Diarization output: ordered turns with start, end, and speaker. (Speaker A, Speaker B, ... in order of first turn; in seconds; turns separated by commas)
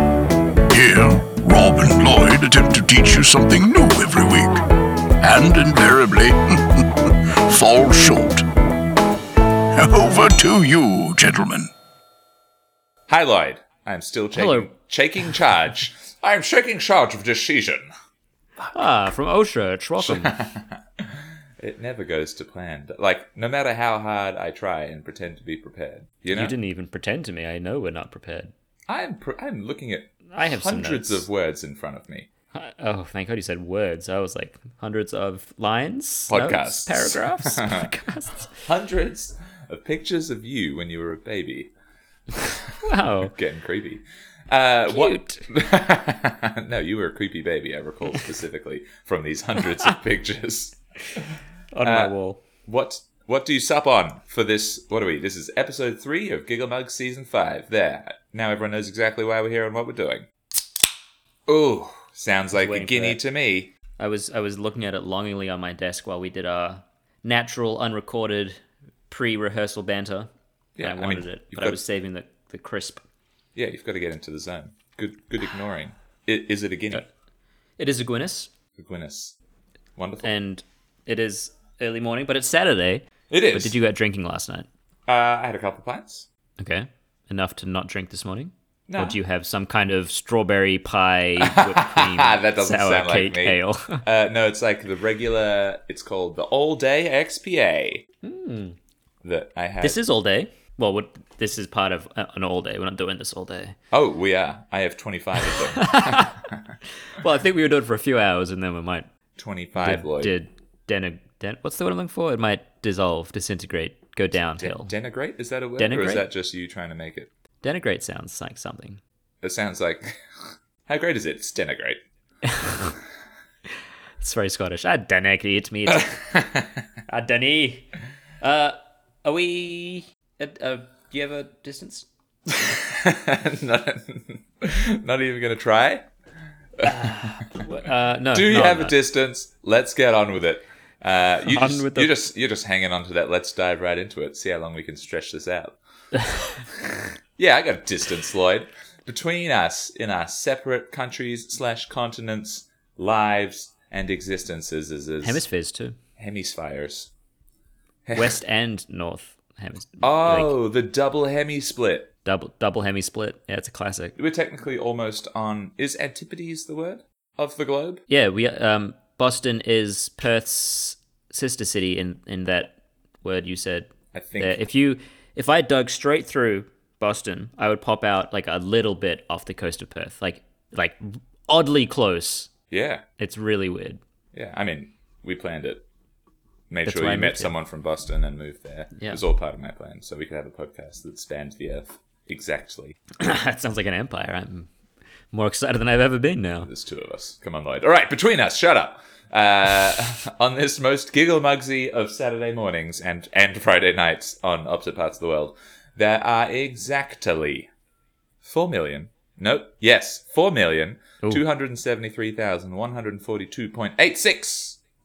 Speaker A: 0.7-4.6, Speaker A: 5.2-8.5, Speaker A: 9.7-11.7, Speaker B: 13.1-17.9, Speaker C: 14.3-14.7, Speaker C: 18.7-20.4, Speaker B: 20.0-26.6, Speaker C: 26.3-28.5, Speaker B: 28.9-32.3, Speaker C: 30.3-31.3, Speaker C: 32.5-38.6, Speaker B: 36.3-37.9, Speaker B: 38.6-41.7, Speaker C: 42.8-43.3, Speaker B: 43.1-51.2, Speaker C: 44.9-45.5, Speaker C: 51.7-52.4, Speaker B: 51.8-52.1, Speaker B: 52.7-60.3, Speaker B: 61.5-63.7, Speaker C: 62.5-63.2, Speaker C: 64.0-70.3, Speaker B: 70.8-71.8, Speaker C: 70.8-73.0, Speaker B: 73.5-77.1, Speaker C: 77.8-78.5, Speaker B: 78.8-79.4, Speaker B: 80.0-80.3, Speaker C: 80.2-84.7, Speaker B: 83.3-83.8, Speaker B: 85.1-86.3, Speaker C: 86.6-94.0, Speaker B: 88.9-89.2, Speaker B: 91.4-98.0, Speaker C: 98.2-98.8, Speaker B: 99.2-100.0, Speaker C: 99.8-103.8, Speaker B: 103.9-106.7, Speaker C: 105.4-106.4, Speaker C: 107.1-109.1, Speaker B: 109.4-110.3, Speaker C: 109.8-114.9, Speaker B: 114.6-117.3, Speaker C: 115.8-116.3, Speaker C: 117.6-119.0, Speaker B: 119.4-120.2, Speaker B: 120.9-122.0, Speaker C: 122.4-123.0, Speaker C: 124.2-126.3, Speaker B: 125.9-126.7, Speaker C: 127.1-127.9, Speaker C: 128.4-132.1, Speaker B: 132.5-136.1, Speaker B: 136.8-137.2, Speaker C: 136.8-139.0, Speaker B: 138.3-145.8, Speaker C: 141.5-142.1, Speaker B: 146.7-155.4, Speaker C: 155.2-156.0, Speaker B: 156.2-157.1, Speaker B: 158.1-158.4, Speaker C: 158.2-160.6, Speaker B: 160.0-162.1, Speaker C: 162.2-164.2, Speaker B: 164.2-168.0, Speaker C: 168.1-182.5, Speaker B: 174.1-174.7, Speaker B: 182.7-183.0, Speaker C: 183.2-184.0, Speaker B: 184.3-185.8, Speaker B: 186.7-193.0, Speaker C: 186.8-187.5, Speaker C: 189.0-189.2, Speaker C: 193.2-194.7, Speaker C: 195.3-196.7, Speaker B: 196.6-207.7, Speaker B: 208.4-214.8